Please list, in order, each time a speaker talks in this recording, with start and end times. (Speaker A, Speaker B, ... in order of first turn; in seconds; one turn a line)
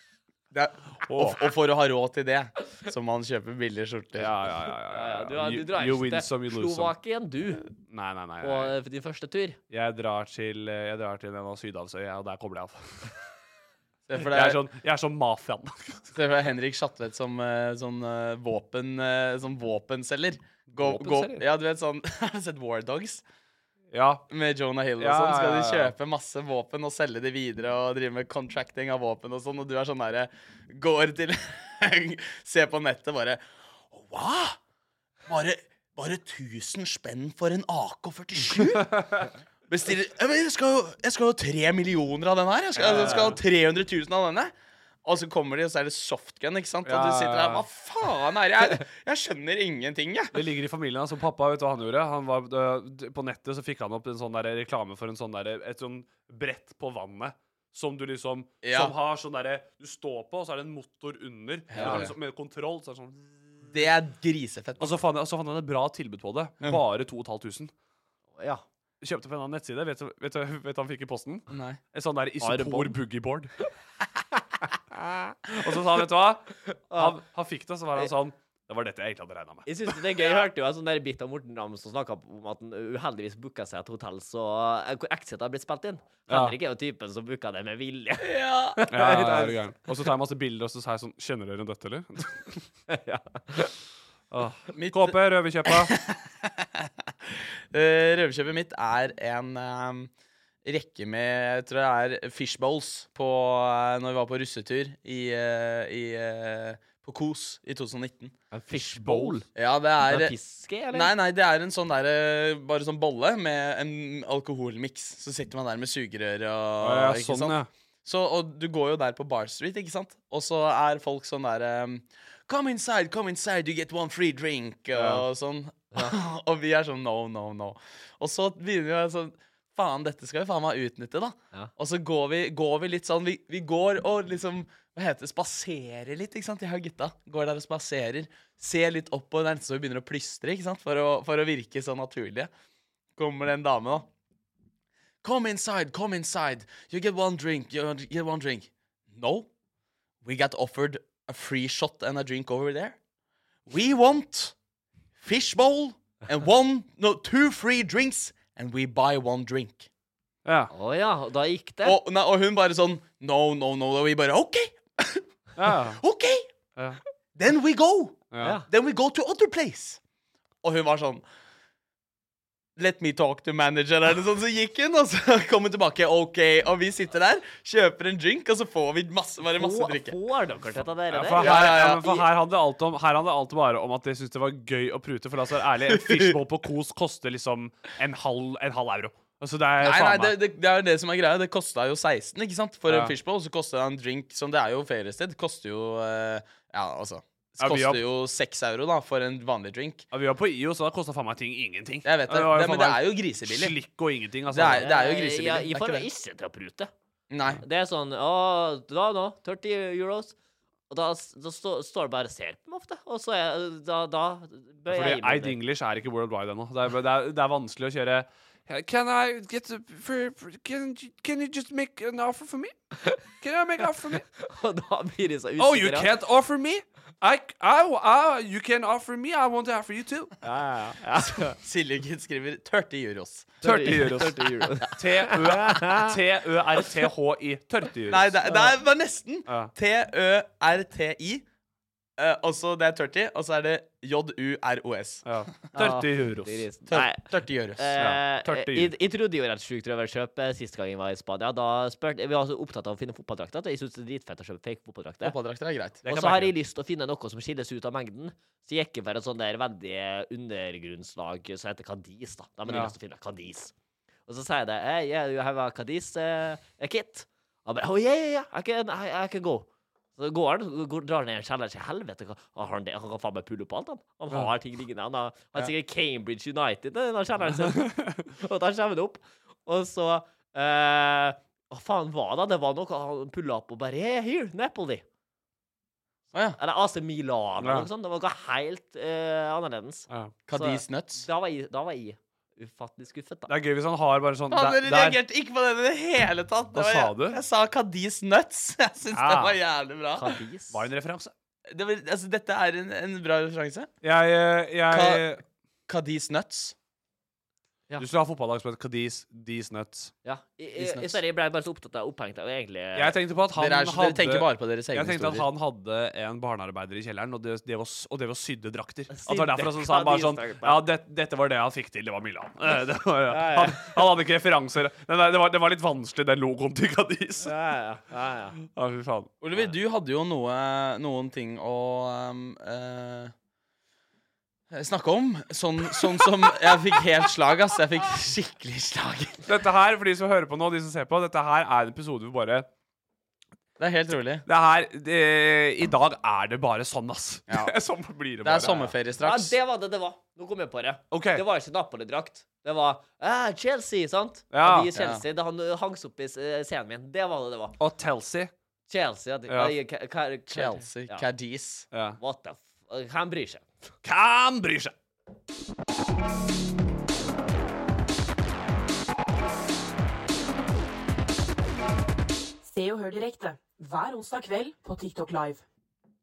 Speaker A: 0.5-4.3
Speaker B: 1.1-1.5
Speaker B: 4.2-6.9
Speaker C: 4.9-7.6
Speaker B: 7.9-8.8
Speaker C: 8.4-9.6
Speaker B: 9.7-13.1
Speaker A: 14.1-14.6
Speaker B: 14.2-16.1
Speaker A: 16.1-23.2
Speaker B: 20.8-21.4
Speaker B: 23.9-24.2
Speaker A: 24.3-34.6
Speaker B: 25.0-25.9
Speaker A: 35.3-44.5
Speaker B: 42.8-43.4
Speaker A: 45.0-50.4
Speaker B: 46.8-47.6
Speaker B: 50.3-63.6
Speaker A: 58.6-58.9
Speaker A: 61.7-62.1
Speaker A: 63.7-65.0
Speaker B: 64.8-67.7
Speaker C: 68.3-68.6
Speaker B: 69.0-73.5
Speaker A: 71.5-71.8
Speaker C: 72.4-73.0
Speaker C: 74.9-75.3
Speaker B: 75.5-80.0
Speaker C: 76.7-77.2
Speaker C: 79.7-89.6
Speaker B: 86.3-86.5
Speaker A: 88.2-88.8
Speaker B: 88.9-92.6
Speaker C: 92.9-93.7
Speaker B: 94.3-95.9
Speaker A: 94.7-95.1
Speaker A: 95.7-96.9
Speaker A: 97.7-100.1
Speaker A: 100.6-108.3
Speaker C: 108.5-109.5
Speaker B: 108.7-109.4
Speaker A: 109.5-110.3
Speaker C: 110.0-111.1
Speaker A: 110.9-142.5
Speaker B: 116.8-117.7
Speaker B: 124.9-125.2
Speaker A: 143.2-144.1
Speaker A: 145.2-149.5
Speaker A: 150.2-153.0
Speaker A: 153.7-154.5
Speaker A: 155.2-159.9
Speaker B: 160.4-160.7
Speaker C: 160.7-162.0
Speaker A: 161.8-165.2
Speaker B: 165.6-166.0
Speaker A: 166.0-166.5
Speaker A: 167.3-170.0
Speaker B: 168.3-168.6
Speaker C: 168.4-168.7
Speaker A: 170.6-171.2
Speaker A: 172.8-180.2
Speaker C: 179.5-182.1
Speaker B: 181.1-190.3
Speaker A: 181.4-182.2
Speaker A: 185.9-186.3
Speaker A: 189.8-200.1
Speaker B: 192.9-193.1
Speaker B: 197.6-198.0
Speaker B: 200.1-204.9
Speaker A: 202.0-203.7
Speaker A: 204.5-206.1
Speaker C: 204.7-206.9
Speaker A: 207.3-207.6
Speaker C: 207.6-210.3
Speaker C: 210.9-215.6
Speaker B: 214.9-224.2
Speaker C: 224.4-226.1
Speaker B: 225.6-230.4
Speaker C: 230.4-231.6
Speaker A: 231.4-233.6
Speaker C: 233.6-236.1
Speaker B: 233.6-238.5
Speaker A: 238.1-241.4
Speaker C: 238.4-238.8
Speaker B: 239.5-239.7
Speaker A: 242.2-245.2
Speaker B: 245.2-246.7
Speaker C: 245.8-255.3
Speaker A: 246.9-247.9
Speaker B: 248.0-248.9
Speaker A: 255.2-256.2
Speaker C: 256.0-263.7
Speaker B: 256.1-256.5
Speaker B: 262.7-262.9
Speaker C: 264.3-285.0
Speaker B: 277.7-278.2
Speaker C: 286.6-293.5
Speaker B: 287.6-287.9
Speaker B: 290.1-290.3
Speaker A: 290.5-291.2
Speaker B: 293.5-295.2
Speaker A: 294.5-300.3
Speaker B: 296.7-297.4
Speaker B: 299.1-299.6
Speaker C: 300.1-300.8
Speaker B: 300.7-301.3
Speaker A: 301.7-303.9
Speaker B: 304.0-305.4
Speaker A: 304.9-305.2
Speaker A: 305.9-306.7
Speaker B: 308.0-310.1
Speaker C: 310.2-313.2
Speaker A: 310.7-311.2
Speaker B: 312.9-327.5
Speaker A: 313.6-315.4
Speaker C: 319.1-320.8
Speaker C: 323.3-324.0
Speaker C: 327.4-328.6
Speaker B: 328.6-329.3
Speaker A: 329.4-333.3
Speaker A: 334.7-339.4
Speaker B: 339.4-342.7
Speaker A: 343.8-344.4
Speaker B: 344.4-348.9
Speaker A: 348.4-349.6
Speaker C: 349.2-357.8
Speaker B: 351.1-351.4
Speaker B: 354.5-354.9
Speaker A: 354.9-355.2
Speaker B: 357.8-358.5
Speaker C: 358.9-361.2
Speaker B: 359.5-359.7
Speaker A: 360.5-361.9
Speaker B: 361.9-362.2
Speaker C: 362.2-363.6
Speaker B: 364.0-364.9
Speaker D: 372.6-375.6